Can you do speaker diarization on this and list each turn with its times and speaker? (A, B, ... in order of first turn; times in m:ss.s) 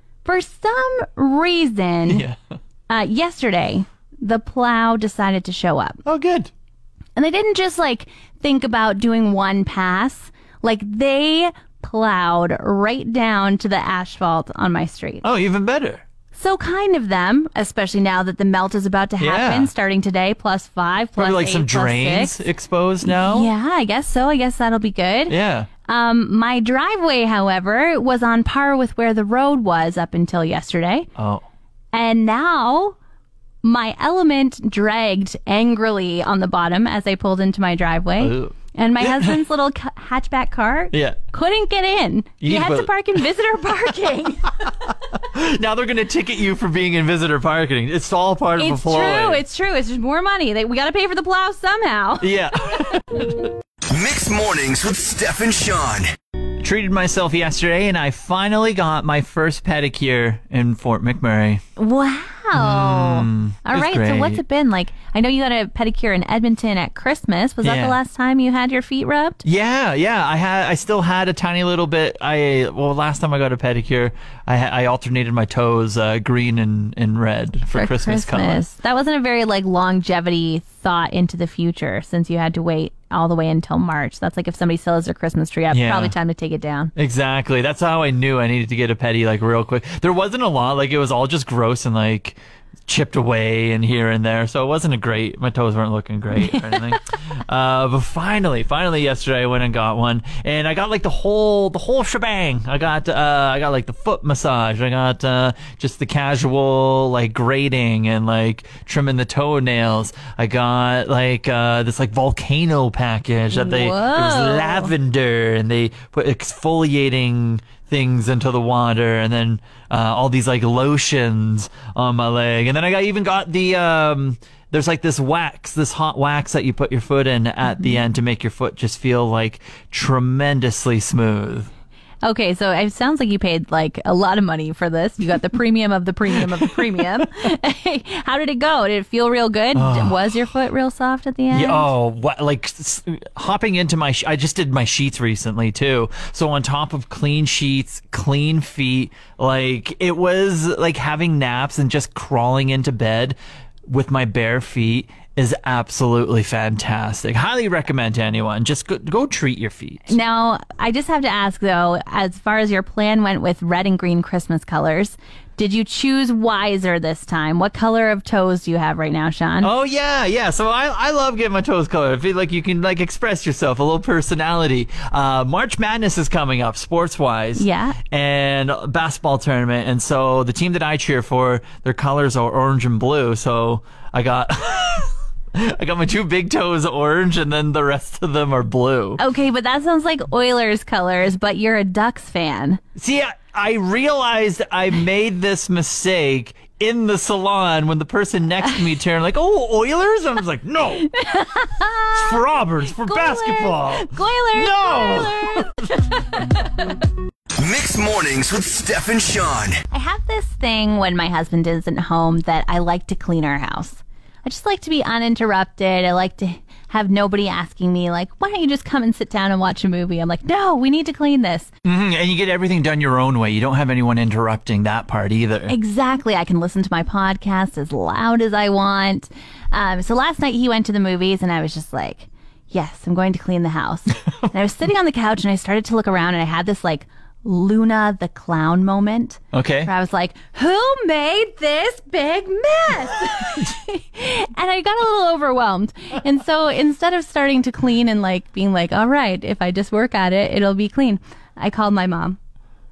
0:00.2-0:02.2 A
0:02.1-0:02.4 B
0:02.9-0:06.0 A
0:06.0-0:06.5 B
0:07.2-0:15.2 A
0:15.2-0:16.0 B
0:16.3-0:22.4 A
0:19.2-0:19.7 B
0:21.2-0:23.5 B
0:23.0-0:31.1 A
0:25.3-0:25.7 B
0:31.2-0:31.4 B
0:31.9-0:33.0 A
0:33.6-0:44.7 A
0:38.2-0:39.4 B
0:40.9-0:41.2 B
0:42.4-0:42.9 B
0:45.1-0:49.4 B
0:48.6-0:52.5 A
0:52.2-0:53.5 B
0:53.9-0:56.1 C
0:56.6-1:01.6 B
1:01.8-1:09.4 A
1:02.5-1:04.4 B
1:07.6-1:08.0 B
1:09.4-1:18.7 B
1:17.7-1:26.9 A
1:25.7-1:26.1 B
1:27.0-2:11.7 B
1:53.5-1:54.9 A
2:12.2-2:21.9 A
2:16.3-2:17.2 B
2:19.7-2:20.3 B
2:21.5-2:40.2 B
2:40.1-2:49.7 A
2:49.6-3:09.2 B
2:57.6-2:58.0 A
3:09.2-3:12.8 A
3:13.0-3:21.1 B
3:21.1-3:22.4 A
3:22.1-3:26.1 B
3:22.9-3:26.9 A
3:27.5-3:29.8 C
3:29.9-3:41.7 A
3:41.8-3:45.7 B
3:45.7-4:12.4 A
3:59.5-3:59.9 B